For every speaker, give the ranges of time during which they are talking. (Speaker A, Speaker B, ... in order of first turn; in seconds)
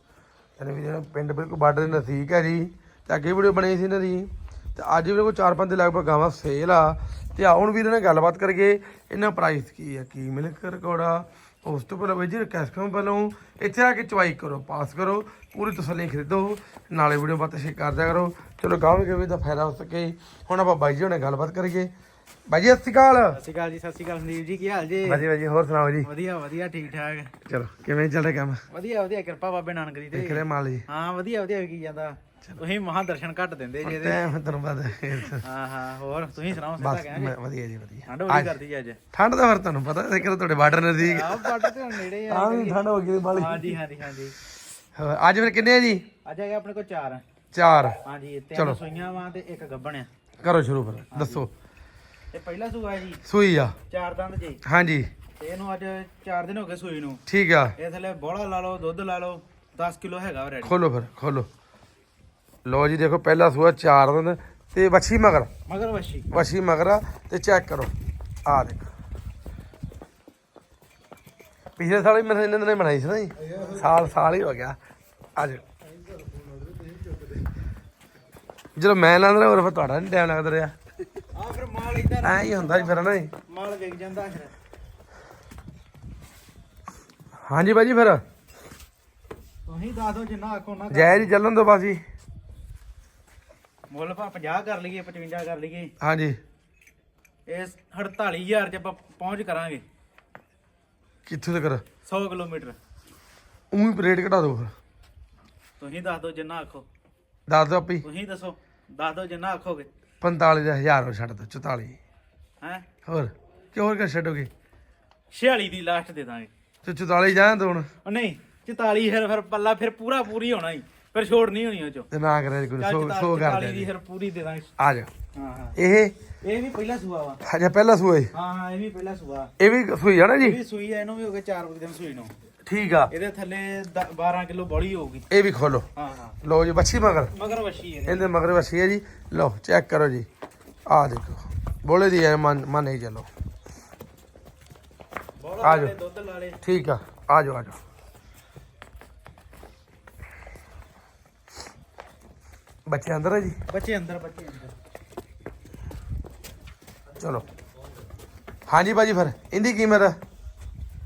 Speaker A: 0.6-21.9, 22.5-23.4, 25.0-26.1, 27.5-28.6, 30.1-30.9, 33.8-35.4, 36.8-38.5, 39.1-41.7, 42.3-43.8, 45.0-46.0, 47.5-48.0, 50.4-51.5, 53.3-53.8, 54.6-55.1, 57.3-57.8, 60.6-61.5, 62.6-65.5, 66.3-67.9, 68.5-68.9, 71.8-74.8, 75.4-75.6, 78.8-80.8, 82.2-83.3, 87.5-88.2, 90.9-92.0, 96.0-96.4, 101.3-101.8, 103.7-104.7, 107.5-108.0, 110.2-112.0, 113.0-114.5, 116.8-117.9, 122.1-123.9, 124.8-125.1, 125.8-126.1, 127.4-128.3, 129.6-130.6, 132.7-133.1, 135.3-135.9, 136.4-137.3, 138.1-140.3, 140.9-143.3, 145.6-145.9, 146.6-147.8, 152.9-153.6, 157.2-157.4, 158.7-160.2
Speaker B: 23.3-25.3, 26.0-27.3, 28.7-34.2, 35.4-37.4, 38.1-39.0, 41.0-42.8, 43.3-44.3, 46.2-47.2, 48.0-50.1, 51.1-51.5, 52.3-53.2, 53.9-54.6, 55.4-57.2, 57.8-60.8, 65.7-66.3, 81.3-84.5, 89.7-91.3, 93.9-95.9, 97.5-99.8, 102.0-102.8, 105.8-106.9, 108.0-109.9, 112.6-112.9, 115.3-116.5, 118.0-122.1, 122.8-124.7, 125.3-125.8, 126.4-127.4, 128.3-129.5, 130.4-132.3, 133.1-135.3, 136.0-136.4, 137.3-138.3, 145.4-146.6, 153.7-154.7